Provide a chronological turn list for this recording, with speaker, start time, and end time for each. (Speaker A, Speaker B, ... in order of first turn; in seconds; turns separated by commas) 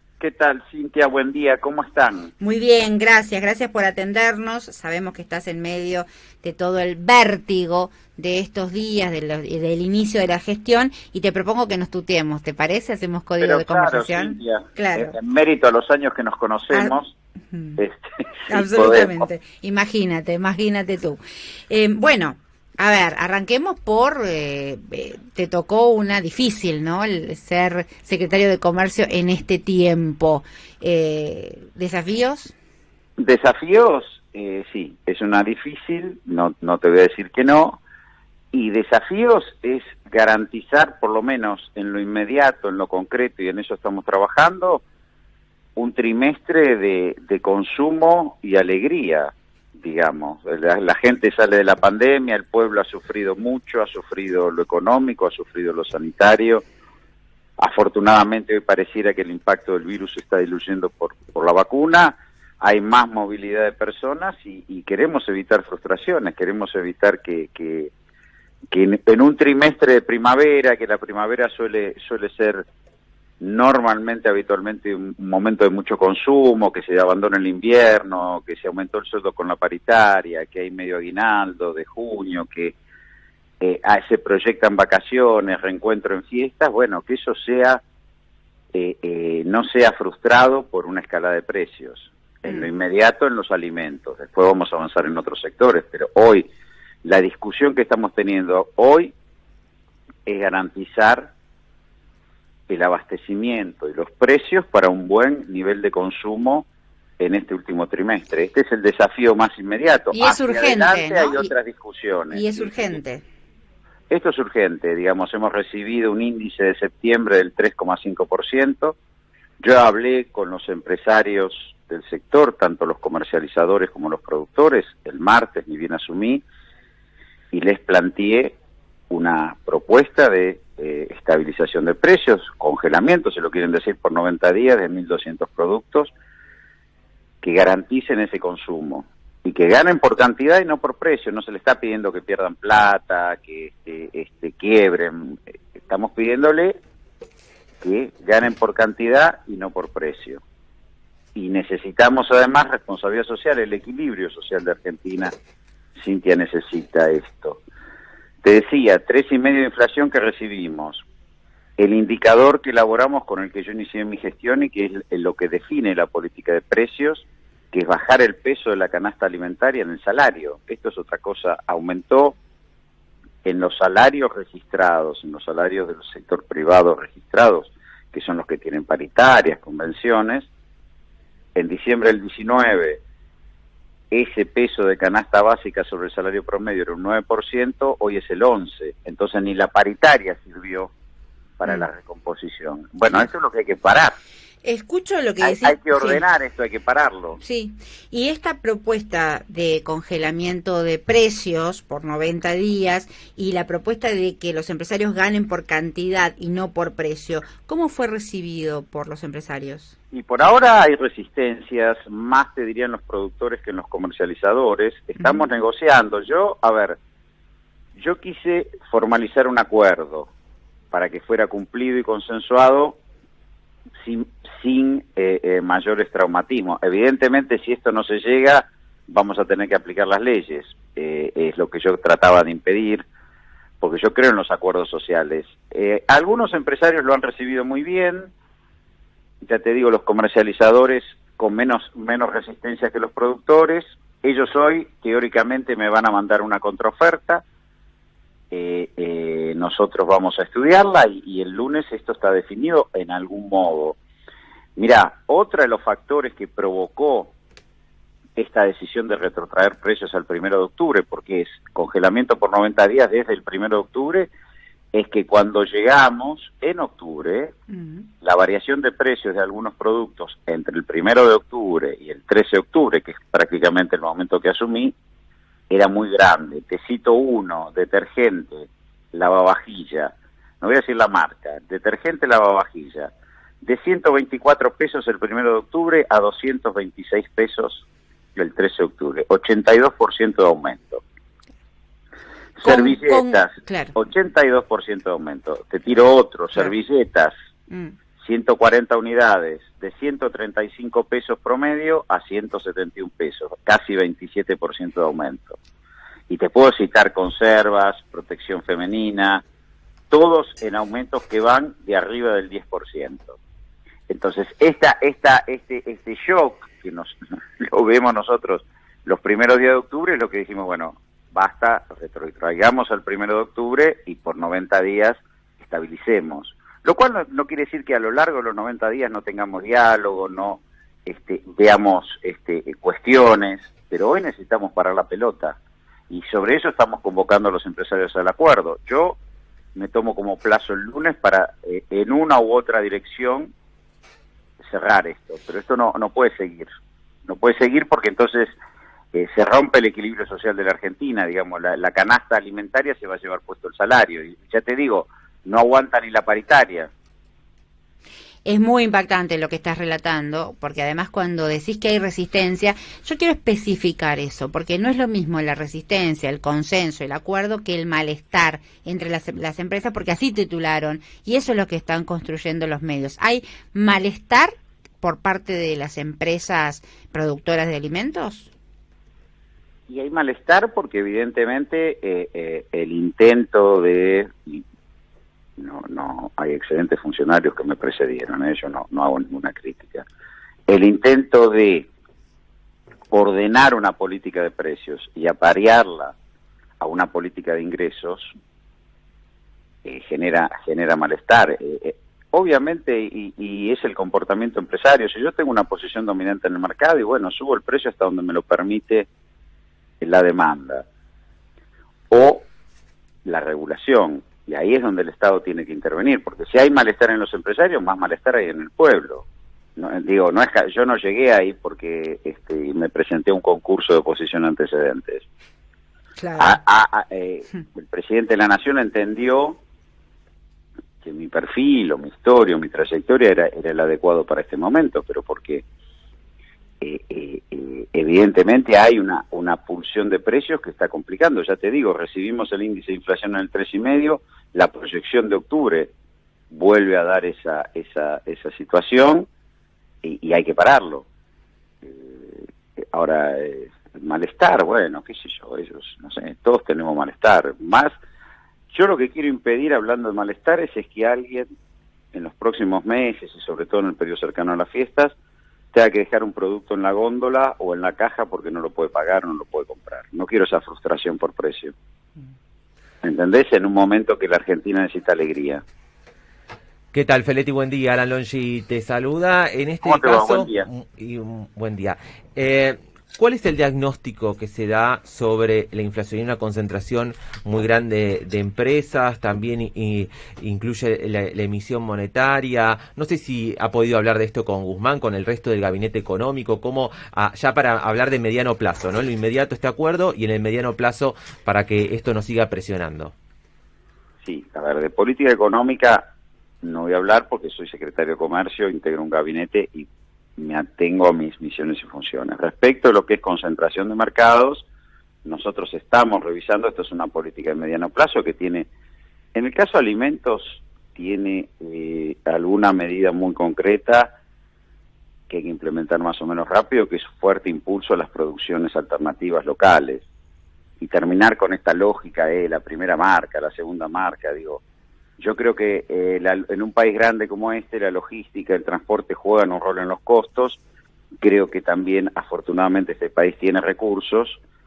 Speaker A: 0.2-2.3, Speaker B: 2.4-15.2, Speaker A: 13.4-17.1, Speaker B: 17.5-17.8, Speaker A: 17.8-19.2, Speaker B: 18.5-32.5, Speaker A: 33.2-37.8, Speaker A: 38.5-44.8, Speaker A: 45.8-56.6, Speaker A: 57.6-67.9, Speaker A: 68.7-72.7, Speaker A: 73.4-82.8, Speaker A: 83.6-87.8, Speaker A: 88.7-96.5, Speaker A: 97.0-99.1, Speaker A: 100.3-101.3, Speaker A: 102.7-106.7, Speaker A: 107.2-113.0, Speaker B: 110.1-111.5, Speaker B: 112.3-113.2, Speaker A: 114.1-119.0, Speaker A: 119.6-126.4, Speaker A: 127.5-128.6, Speaker A: 129.1-136.1, Speaker A: 137.4-146.8, Speaker A: 147.8-150.4, Speaker A: 151.3-155.3, Speaker A: 156.0-157.6, Speaker A: 158.4-161.0, Speaker A: 161.8-172.4, Speaker A: 173.4-180.5, Speaker A: 181.6-183.0, Speaker A: 184.1-190.9, Speaker A: 191.6-194.2, Speaker B: 194.6-196.2, Speaker A: 195.4-197.4, Speaker B: 197.4-209.9, Speaker A: 210.1-217.0, Speaker B: 215.2-215.4, Speaker A: 218.0-220.3, Speaker A: 220.9-223.0, Speaker A: 224.0-233.1, Speaker A: 233.8-238.3, Speaker A: 239.4-247.4, Speaker A: 248.5-254.0, Speaker A: 254.8-257.3, Speaker A: 258.4-264.3, Speaker A: 264.9-267.6, Speaker B: 267.7-268.1, Speaker A: 268.2-274.9, Speaker A: 275.7-283.1, Speaker A: 283.6-287.9, Speaker A: 288.4-291.0, Speaker A: 292.6-297.3, Speaker B: 292.6-293.9, Speaker A: 298.2-305.6, Speaker A: 306.3-309.4, Speaker A: 310.1-313.4, Speaker A: 314.1-335.6, Speaker A: 336.1-339.2, Speaker A: 339.8-343.5, Speaker A: 344.6-346.7, Speaker A: 347.3-348.5, Speaker A: 349.1-356.9, Speaker B: 358.4-378.5, Speaker A: 379.9-384.6, Speaker A: 385.6-390.1, Speaker A: 390.7-391.9, Speaker A: 393.1-396.1, Speaker A: 396.8-398.3, Speaker A: 399.9-409.1, Speaker A: 410.0-410.9, Speaker A: 412.1-412.5, Speaker A: 413.2-425.3, Speaker B: 426.2-426.6, Speaker A: 426.4-429.6, Speaker A: 431.0-435.6, Speaker A: 436.8-445.9, Speaker A: 446.5-449.3, Speaker A: 450.0-451.1, Speaker A: 451.8-457.9, Speaker A: 458.7-461.5, Speaker A: 462.1-465.2, Speaker A: 465.7-471.7, Speaker A: 473.0-475.6, Speaker C: 476.9-503.1, Speaker A: 479.8-480.7, Speaker A: 504.2-506.1, Speaker A: 506.6-514.7, Speaker A: 515.2-518.7, Speaker A: 519.4-524.1, Speaker A: 525.3-530.0, Speaker A: 530.8-534.6, Speaker A: 535.2-540.6, Speaker A: 541.2-544.4